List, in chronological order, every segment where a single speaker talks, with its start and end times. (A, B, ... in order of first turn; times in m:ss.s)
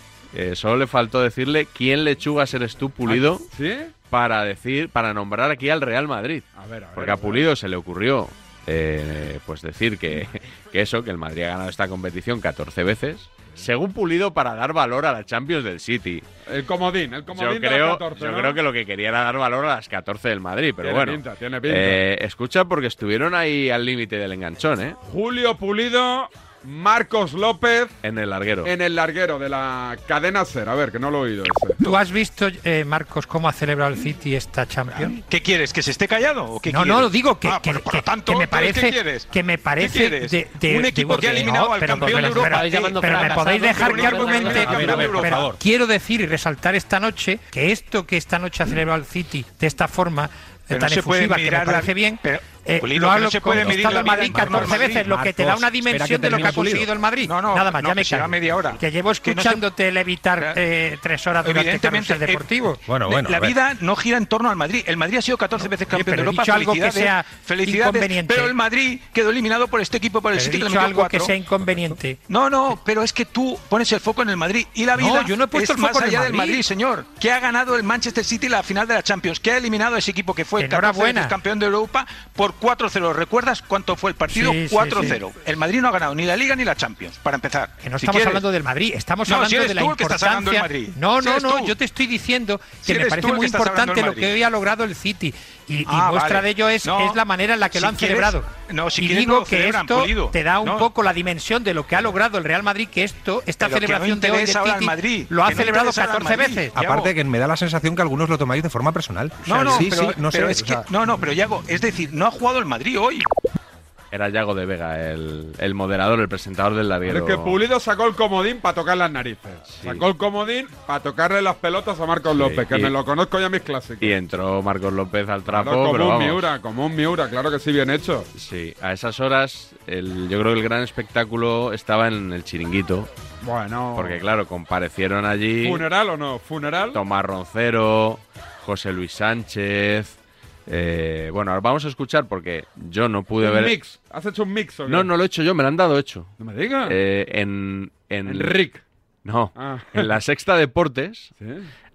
0:00.3-0:03.5 A
0:03.0-0:03.9 B
0:04.1-0:16.2 A
0:06.6-0:07.4 B
0:16.5-0:18.6 B
0:17.3-0:25.0 A
0:20.8-0:22.0 B
0:25.0-0:27.9 B
0:28.0-0:28.7 A
0:28.6-0:31.8 B
0:31.8-0:35.2 C
0:35.0-0:45.5 D
0:36.7-1:02.8 C
0:50.7-0:55.1 D
0:53.5-0:56.9 E
0:56.3-0:56.6 D
0:57.2-0:59.6 D
1:01.4-1:02.5 D
1:02.9-1:03.6 E
1:03.0-1:11.3 D
1:05.9-1:08.5 C
1:10.3-1:12.2 C
1:12.3-1:28.4 D
1:15.0-1:16.6 C
1:20.6-1:21.3 C
1:24.3-1:25.2 C
1:27.8-1:46.7 C
1:29.2-1:31.8 D
1:32.8-1:34.4 D
1:35.8-1:37.2 D
1:37.7-1:40.9 D
1:43.6-1:47.1 D
1:46.7-1:50.9 E
1:49.4-1:53.2 D
1:54.1-1:57.6 A
1:57.0-2:04.2 B
1:59.7-2:00.0 A
2:02.3-2:02.9 A
2:04.0-2:06.5 A
2:05.5-2:08.3 B
2:08.3-2:13.1 A
2:13.4-2:14.2 B
2:14.0-2:15.8 A
2:15.6-2:17.0 B
2:16.9-2:23.7 A
2:23.4-2:25.1 B
2:24.8-2:26.3 A
2:26.4-2:27.0 B
2:26.8-2:28.6 A
2:28.2-2:28.8 B
2:29.2-2:31.3 A
2:29.6-2:30.1 B
2:31.4-2:31.7 B